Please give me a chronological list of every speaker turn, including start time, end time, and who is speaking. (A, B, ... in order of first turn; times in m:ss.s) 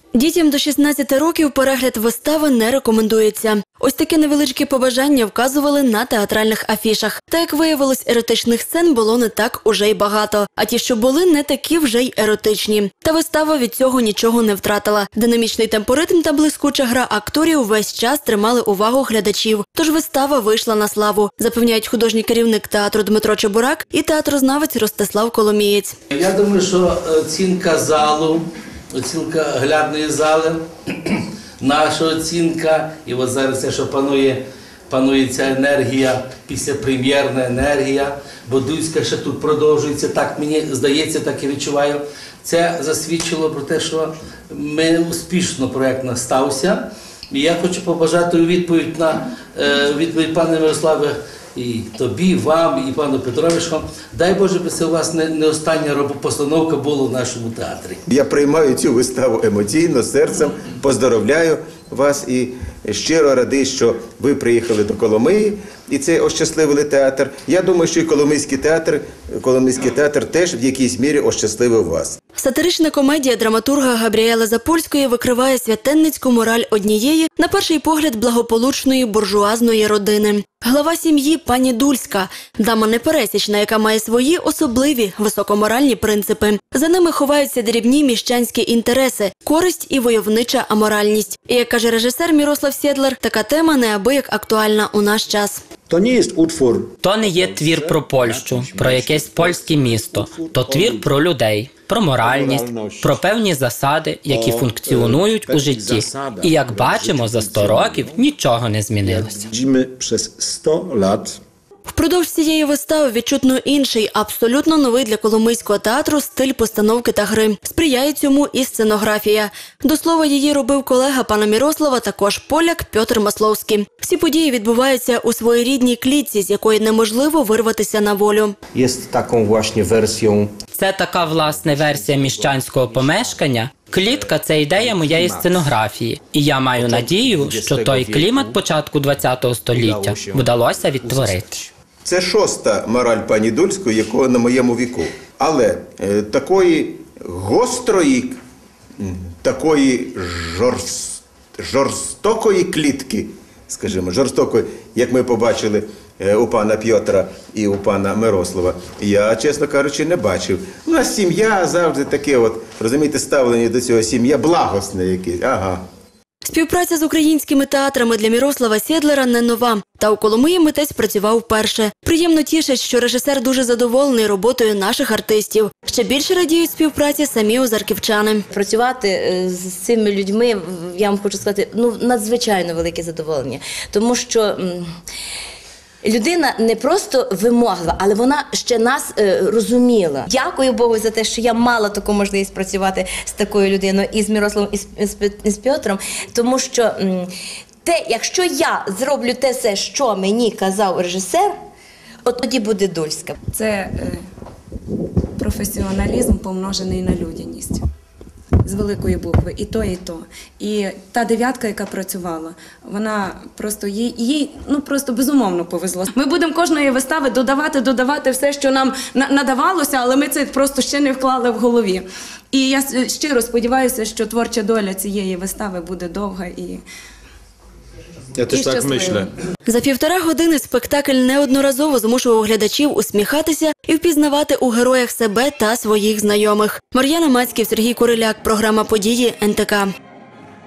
0:00.1-0:25.9 A
0:26.1-0:58.0 B
0:58.1-1:12.2 C
1:12.4-1:35.6 A
1:35.9-1:41.2 D
1:37.0-1:49.5 E
1:42.1-1:43.2 D
1:44.3-1:48.3 D
1:49.0-1:51.4 D
1:51.9-2:08.6 A
2:08.7-2:10.5 F
2:10.7-2:21.7 E
2:11.2-2:13.4 D
2:14.8-2:15.5 D
2:17.4-2:18.3 D
2:17.4-2:18.4 F
2:19.9-2:20.4 F
2:22.0-2:28.4 C
2:29.0-2:45.8 C
2:46.4-2:58.4 A
2:58.5-3:04.9 G
3:06.0-3:17.3 G
3:17.8-3:21.5 G
3:22.2-3:23.3 G
3:23.5-3:24.2 H
3:25.4-3:27.8 H
3:28.6-3:46.8 H
3:48.4-3:49.3 D
3:48.5-3:49.3 H
3:49.6-3:59.9 A